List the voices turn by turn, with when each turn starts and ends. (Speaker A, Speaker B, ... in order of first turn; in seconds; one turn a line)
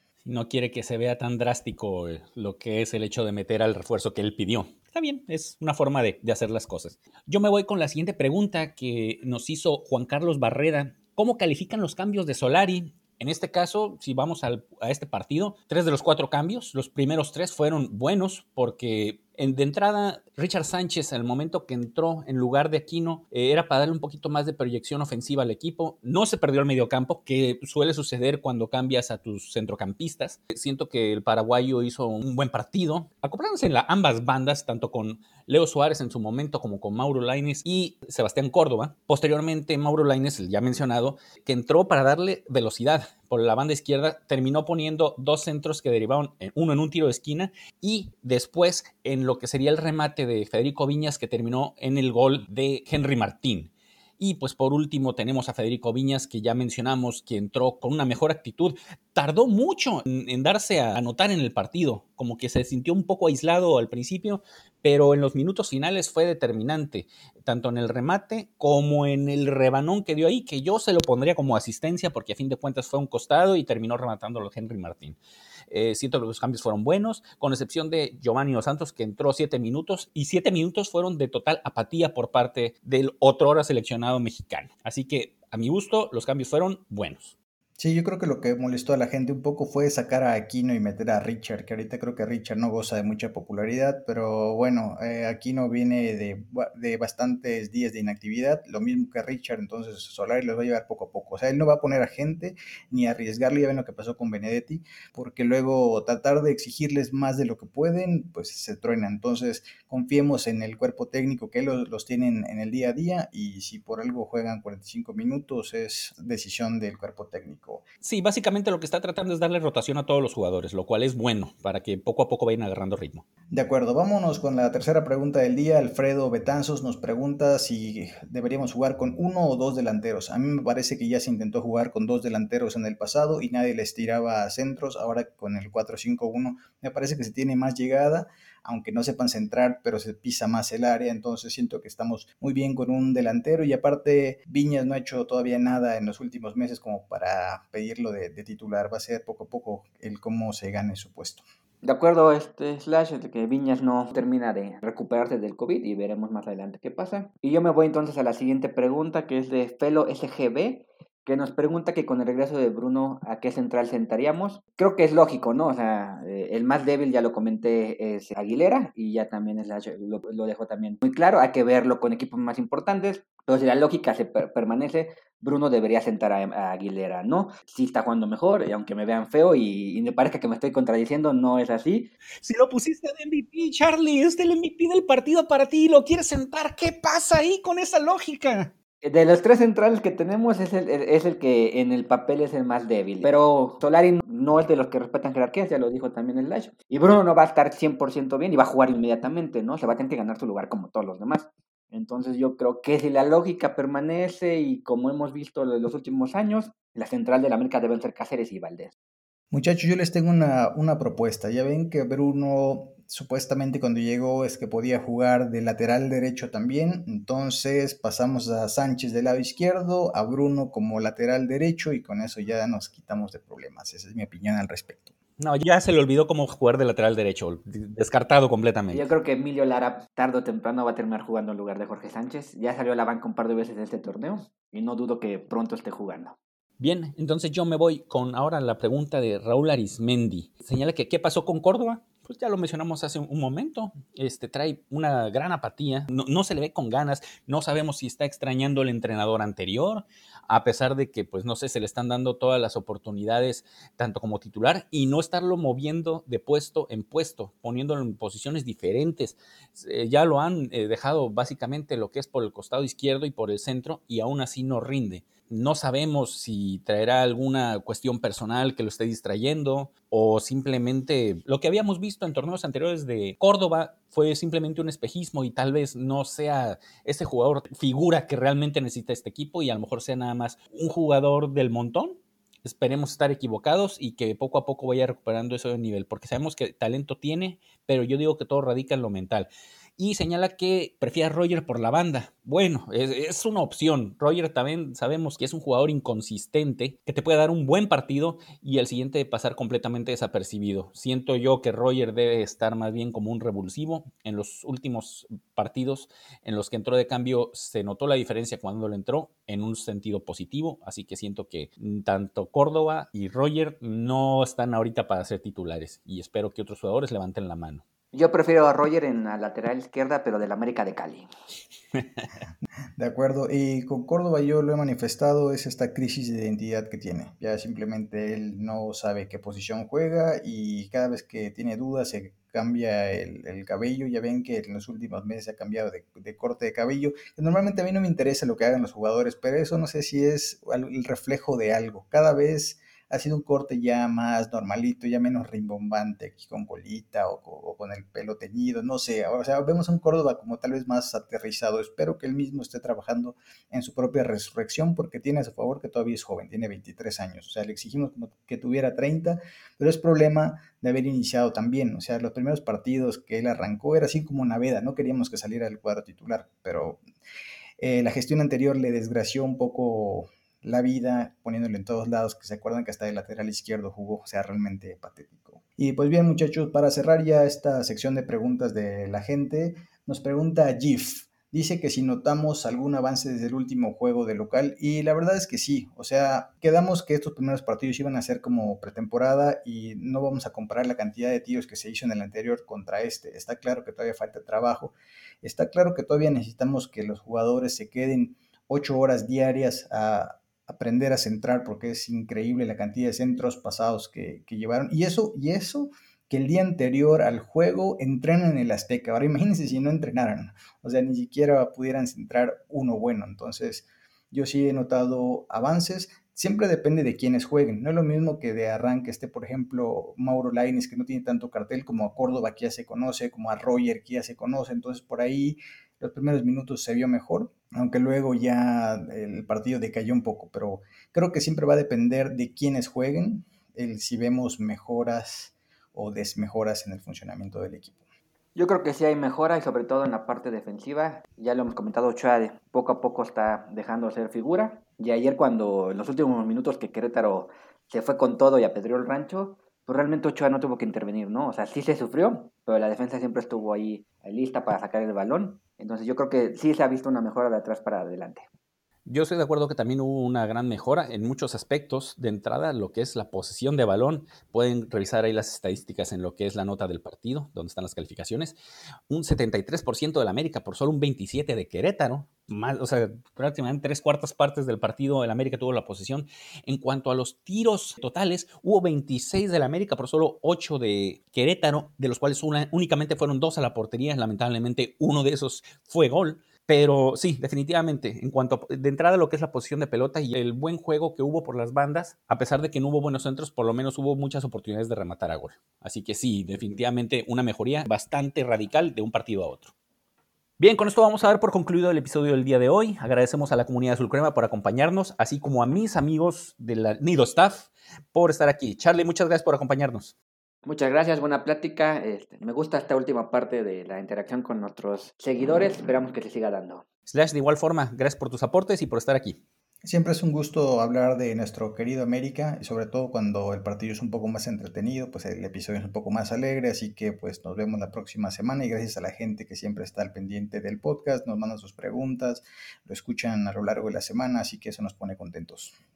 Speaker A: 0.2-75.2
Speaker A: 75.7-87.3
Speaker B: 87.8-117.8
Speaker A: 118.0-123.2
Speaker B: 123.5-151.4
Speaker C: 151.8-182.1
Speaker A: 182.4-188.7
Speaker C: 189.0-208.9
Speaker B: 209.5-225.1
Speaker A: 225.4-229.1
Speaker C: 228.9-236.4
Speaker A: 236.8-317.8
Speaker C: 318.1-321.3
Speaker A: 321.9-322.2
Speaker B: 323.0-367.0
Speaker B: 367.8-438.0
Speaker C: 438.6-458.5
Speaker A: 459.1-468.6
Speaker A: 469.1-499.7
Speaker A: 500.6-510.1
Speaker C: 510.6-516.8
Speaker A: 517.1-519.4
Speaker B: 519.8-535.7